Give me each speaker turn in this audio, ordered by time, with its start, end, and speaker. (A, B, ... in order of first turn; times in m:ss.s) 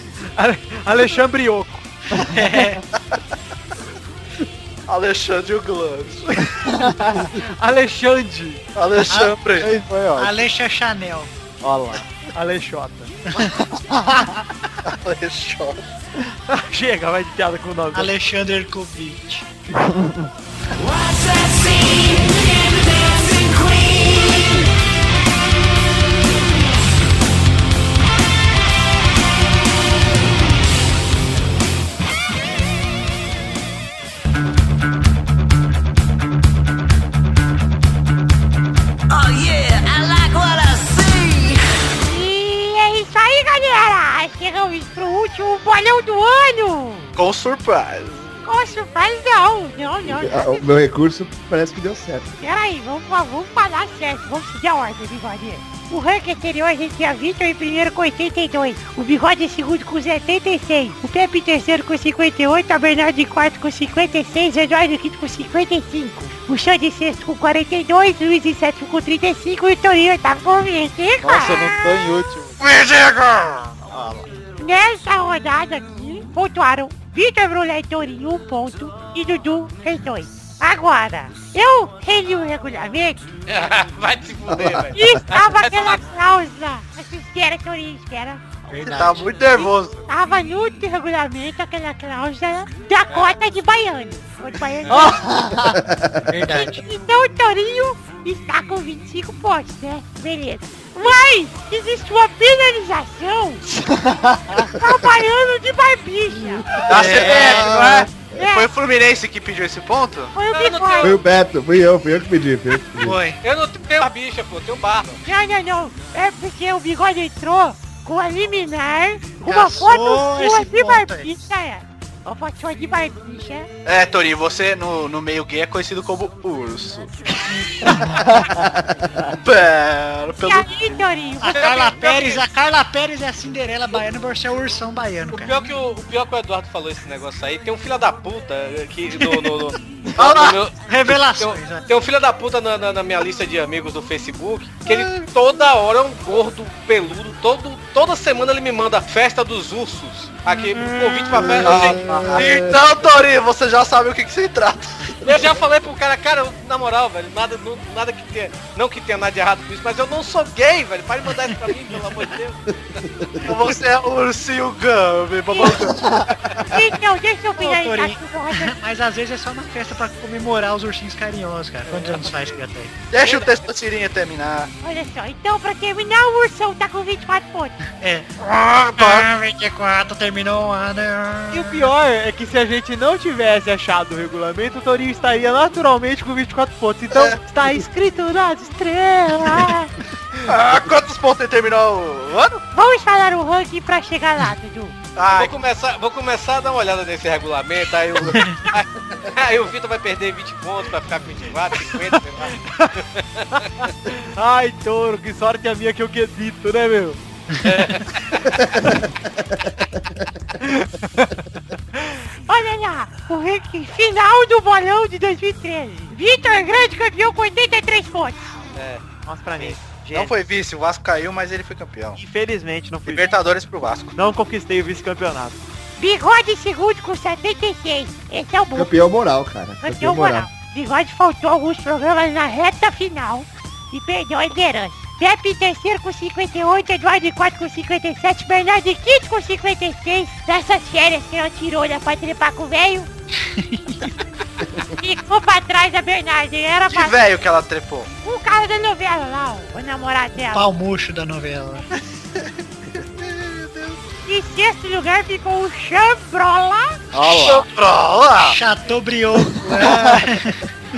0:00.4-0:01.9 A
0:02.1-0:02.6 B
0:02.2-0:02.8 C
0:04.9-0:06.3 D
0:06.6-0:07.3 B
0:07.2-0:08.6 A
0:08.8-0:09.7 D
0:09.1-0:09.4 C
0:09.6-0:10.4 B
0:10.2-0:11.3 C
0:11.7-0:12.0 B
0:11.7-0:13.1 A
0:13.8-0:14.2 B
0:14.8-0:15.8 D
0:16.5-0:18.1 A
0:17.9-0:19.5 C
0:19.8-0:20.3 B
0:39.1-0:41.6 E
0:42.0-0:47.2 F
0:47.2-0:48.4 D
0:48.4-0:50.6 F
0:50.0-0:52.3 G
0:52.4-1:11.9 F
1:11.2-1:12.6 B
1:12.6-1:13.7 D
1:14.6-1:23.3 F
1:23.5-1:26.0 H
1:24.5-1:25.0 G
1:24.9-1:28.4 F
1:28.7-1:29.4 C
1:28.8-1:30.0 D
1:29.5-1:35.4 F
1:33.1-1:33.3 H
1:35.4-1:36.8 C
1:35.7-1:36.6 G
1:36.7-1:43.6 F
1:43.8-1:44.4 B
1:44.7-1:46.8 F
1:46.8-1:48.4 G
1:46.8-1:50.3 D
1:46.9-1:47.7 C
1:48.4-1:48.7 F
1:50.4-1:51.2 F
1:50.5-1:51.2 H
1:51.0-1:53.2 G
1:53.0-1:53.4 C
1:53.4-1:55.2 H
1:55.2-2:03.7 F
1:59.4-2:01.3 C
2:03.8-2:07.1 D
2:08.4-2:09.1 G
2:09.4-2:10.9 D
2:10.4-2:12.1 F
2:11.4-2:15.6 C
2:11.5-2:12.4 H
2:15.3-2:32.0 H
2:20.2-2:21.9 C
2:31.3-2:32.8 G
2:31.6-2:35.2 D
2:35.2-2:43.1 H
2:43.0-2:43.6 G
2:43.4-2:46.2 D
2:45.5-2:45.8 F
2:46.7-2:48.7 F
2:47.6-2:53.0 C
2:53.1-2:54.7 D
2:54.8-2:57.8 F
2:57.9-2:58.3 C
2:58.4-2:59.3 D
2:58.8-3:01.9 C
3:01.5-3:09.9 A
3:07.1-3:07.4 D
3:09.5-3:09.9 F
3:10.4-3:12.6 D
3:12.7-3:15.0 F
3:15.2-3:15.6 D
3:15.3-3:23.9 H
3:18.3-3:18.6 C
3:22.1-3:22.9 A
3:23.6-3:27.2 A
3:27.6-3:28.6 H
3:28.6-3:30.3 G
3:30.6-3:31.3 A
3:32.5-3:38.6 F
3:38.8-3:39.0 D
3:39.3-3:40.3 A
3:39.6-3:42.2 D
3:42.2-3:43.3 A
3:43.1-3:44.1 D
3:44.2-3:45.6 A
3:46.0-3:49.0 F
3:48.7-3:50.5 G
3:49.8-4:03.1 F
4:03.4-4:04.1 C
4:04.9-4:07.2 F
4:06.9-4:08.1 D
4:08.2-4:10.7 F
4:10.5-4:11.9 C
4:13.2-4:14.0 D
4:14.3-4:17.0 F
4:17.1-4:18.6 D
4:17.3-4:17.6 B
4:18.4-4:20.6 C
4:19.8-4:20.1 D